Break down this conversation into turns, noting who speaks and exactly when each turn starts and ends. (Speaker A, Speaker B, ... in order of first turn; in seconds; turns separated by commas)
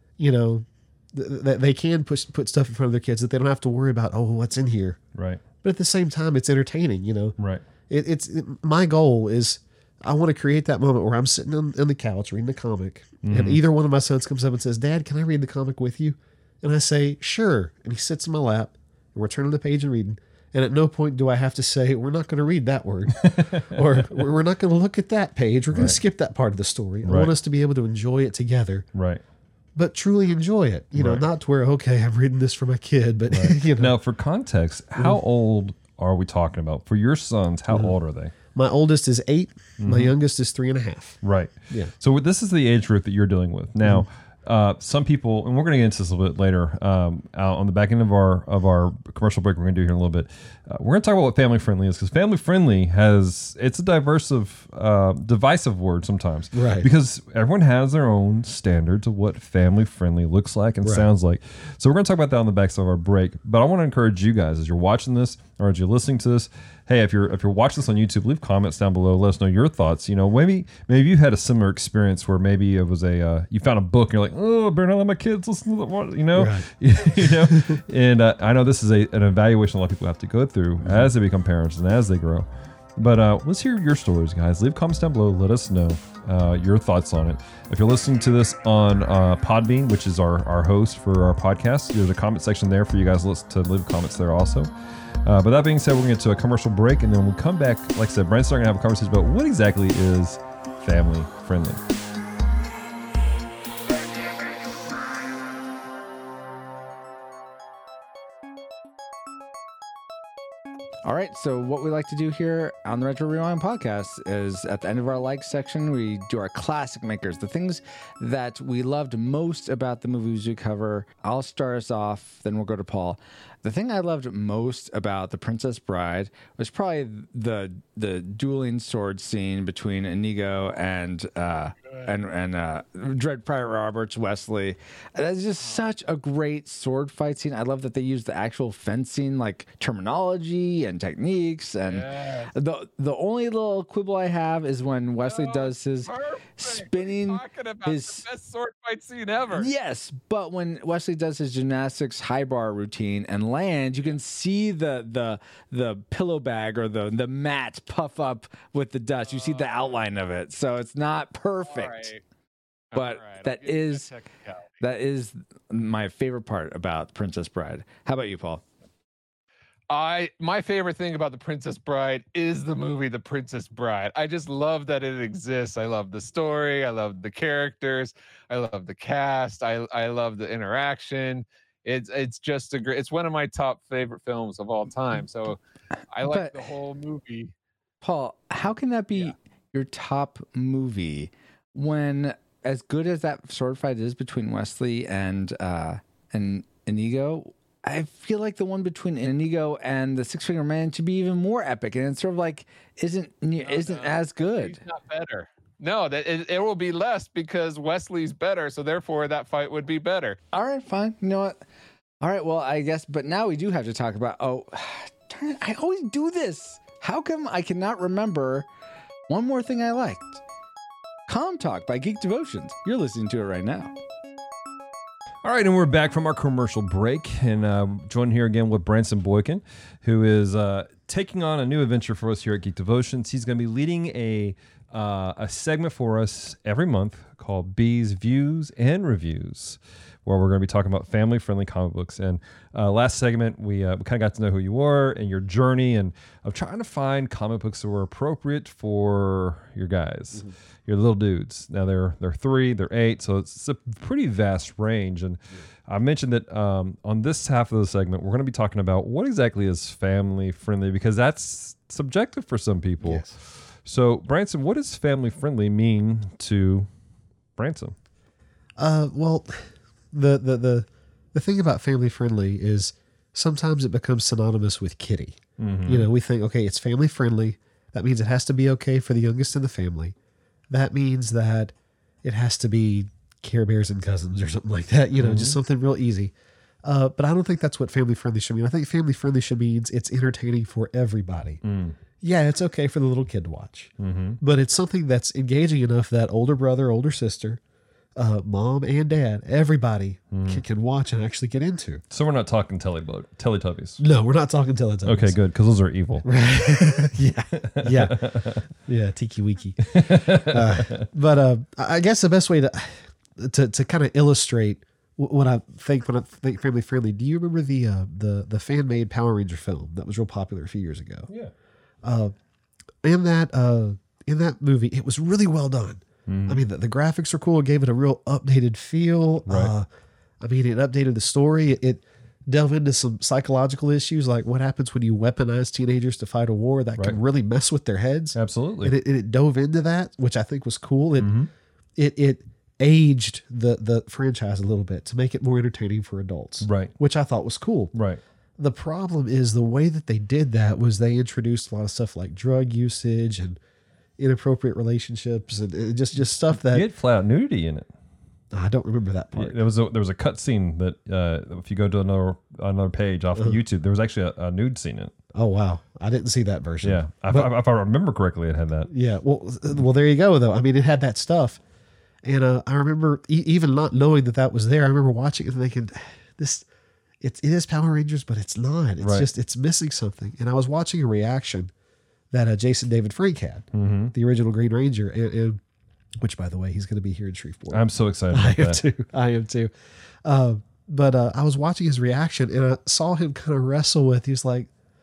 Speaker A: 0.2-5.0, Speaker B: 5.1-5.4, Speaker A: 5.6-7.4, Speaker B: 7.4-7.6, Speaker A: 7.9-28.9, Speaker B: 13.2-13.6, Speaker B: 23.2-24.1, Speaker B: 25.7-26.0, Speaker B: 27.1-27.3, Speaker B: 28.9-29.2, Speaker A: 29.8-33.9, Speaker B: 30.9-31.2, Speaker B: 33.3-38.3, Speaker A: 37.7-37.9, Speaker A: 38.5-41.9, Speaker B: 39.8-40.1, Speaker B: 41.2-94.7, Speaker A: 56.5-56.9, Speaker A: 60.8-61.1, Speaker A: 76.3-77.8, Speaker A: 80.8-81.1, Speaker B: 95.2-101.8, Speaker C: 111.0-148.2, Speaker D: 141.8-142.5, Speaker D: 145.2-149.7, Speaker C: 149.5-162.1, Speaker D: 159.3-159.9, Speaker D: 161.6-162.2, Speaker D: 162.9-164.7, Speaker C: 162.9-164.1, Speaker C: 164.8-168.6, Speaker D: 169.9-185.6, Speaker D: 186.1-187.5, Speaker C: 186.2-186.7, Speaker C: 188.0-204.8, Speaker D: 203.6-210.4, Speaker C: 210.5-211.6, Speaker C: 212.2-218.7, Speaker C: 219.3-220.4, Speaker C: 221.3-223.9, Speaker B: 225.4-266.9, Speaker A: 263.0-263.3, Speaker B: 267.6-267.9, Speaker A: 268.8-280.1, Speaker B: 275.6-276.1, Speaker A: 280.7-286.3, Speaker B: 285.2-285.6, Speaker A: 286.8-291.6, Speaker B: 291.6-291.9, Speaker A: 292.2-297.6, Speaker B: 294.0-294.4, Speaker A: 298.2-302.0, Speaker B: 300.3-300.6, Speaker B: 302.1-304.0, Speaker A: 304.0-305.4, Speaker B: 305.1-306.3, Speaker A: 306.2-308.3, Speaker B: 307.6-308.6, Speaker A: 308.8-321.3, Speaker B: 309.9-311.1, Speaker A: 322.0-322.3, Speaker A: 323.0-329.9, Speaker B: 326.3-326.6, Speaker B: 329.5-329.7, Speaker A: 330.4-341.4, Speaker B: 338.3-338.9, Speaker B: 341.2-341.5, Speaker A: 342.0-347.9, Speaker B: 346.6-346.9, Speaker B: 347.9-348.2, Speaker A: 348.6-353.6, Speaker A: 354.2-356.9, Speaker B: 356.6-357.9, Speaker A: 358.5-359.6, Speaker B: 359.3-365.1, Speaker A: 365.3-367.5, Speaker B: 366.8-368.9, Speaker A: 368.9-371.6, Speaker A: 372.2-376.7, Speaker A: 377.2-381.7, Speaker B: 379.0-379.3, Speaker A: 382.3-385.6, Speaker B: 383.7-384.1, Speaker A: 386.2-389.7, Speaker B: 387.7-388.8, Speaker A: 390.2-394.7